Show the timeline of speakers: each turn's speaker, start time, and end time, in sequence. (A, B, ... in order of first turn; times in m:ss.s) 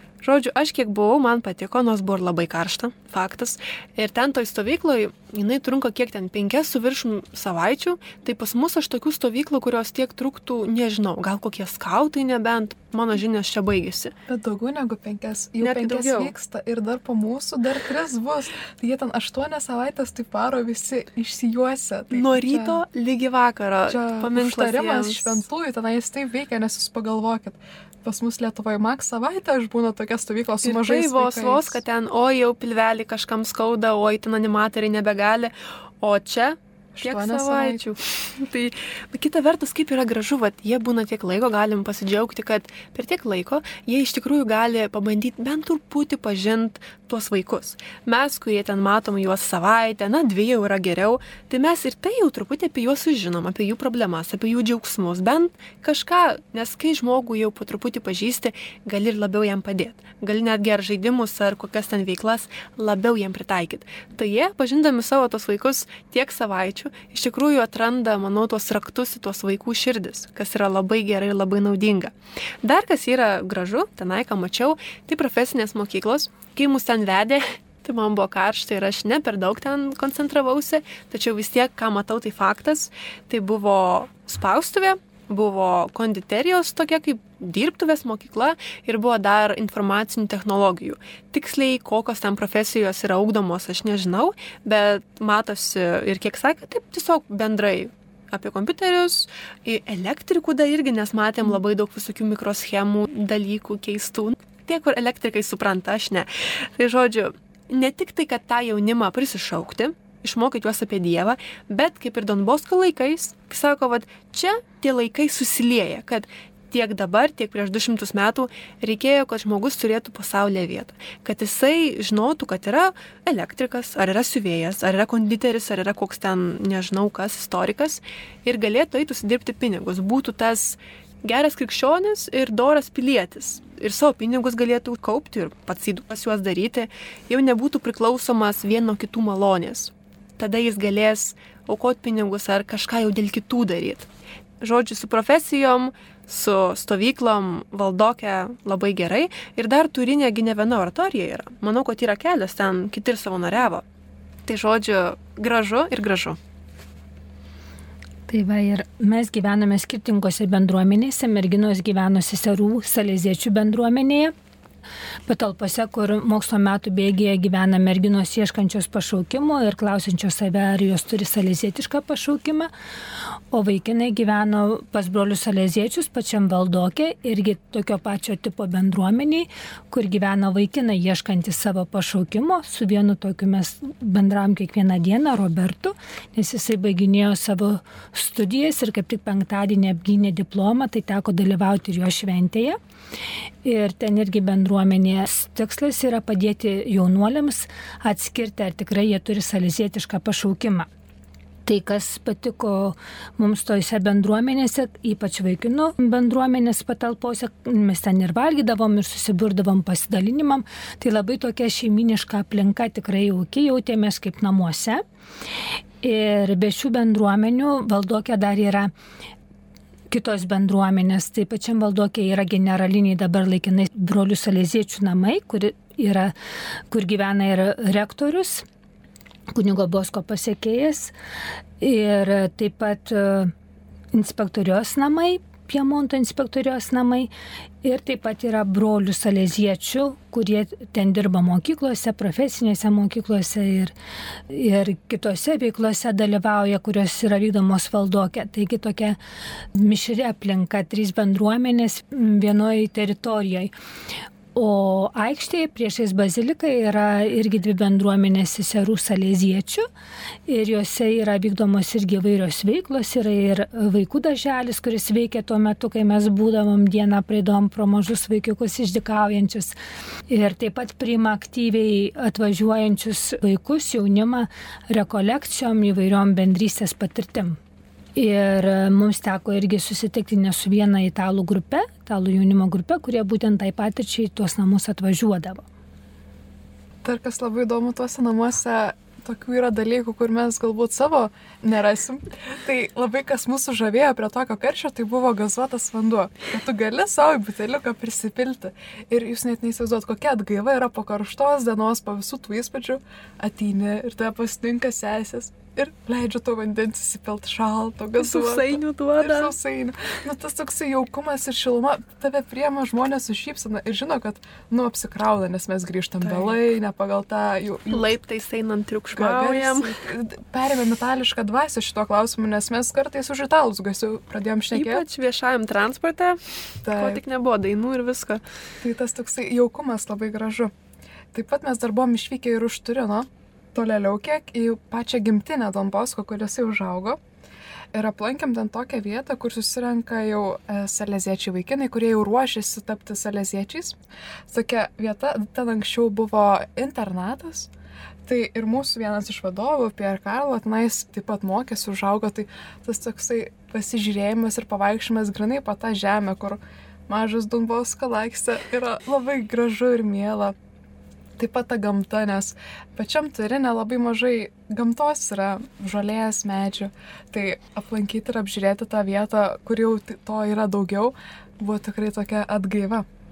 0:00.2-0:14.1 A
0:14.3-0:22.8 B
0:15.6-0:16.3 A
0:22.1-0:25.4 A
0:23.9-0:31.8 B
0:30.6-2:24.1 A
0:37.0-0:37.8 B
2:24.6-2:33.8 A
2:34.5-2:36.4 A
2:38.3-2:44.3 C
2:45.3-2:52.7 C
2:53.5-3:12.8 C
3:13.6-3:20.9 C
3:21.7-3:35.0 C
3:36.0-3:38.9 C
3:40.1-3:46.3 C
3:46.9-3:48.6 C
3:49.5-3:51.1 C
3:51.8-3:53.5 C
3:54.1-3:57.3 C
3:57.8-4:03.9 C
4:04.5-4:09.2 C
4:09.7-4:13.7 C
4:14.5-4:19.9 C
4:20.5-4:29.8 C
4:30.3-4:37.6 C
4:38.2-4:45.6 C
4:47.0-5:18.1 B
5:08.2-5:09.5 A
5:16.2-5:16.6 A
5:17.9-5:20.0 A
5:19.1-5:25.0 B
5:24.7-5:26.4 A
5:26.8-5:27.2 B
5:26.9-5:28.4 A
5:28.8-5:30.7 B
5:31.3-5:37.2 B
5:37.9-5:44.0 B
5:44.5-5:47.7 B
5:48.2-6:00.6 B
6:01.4-6:13.1 B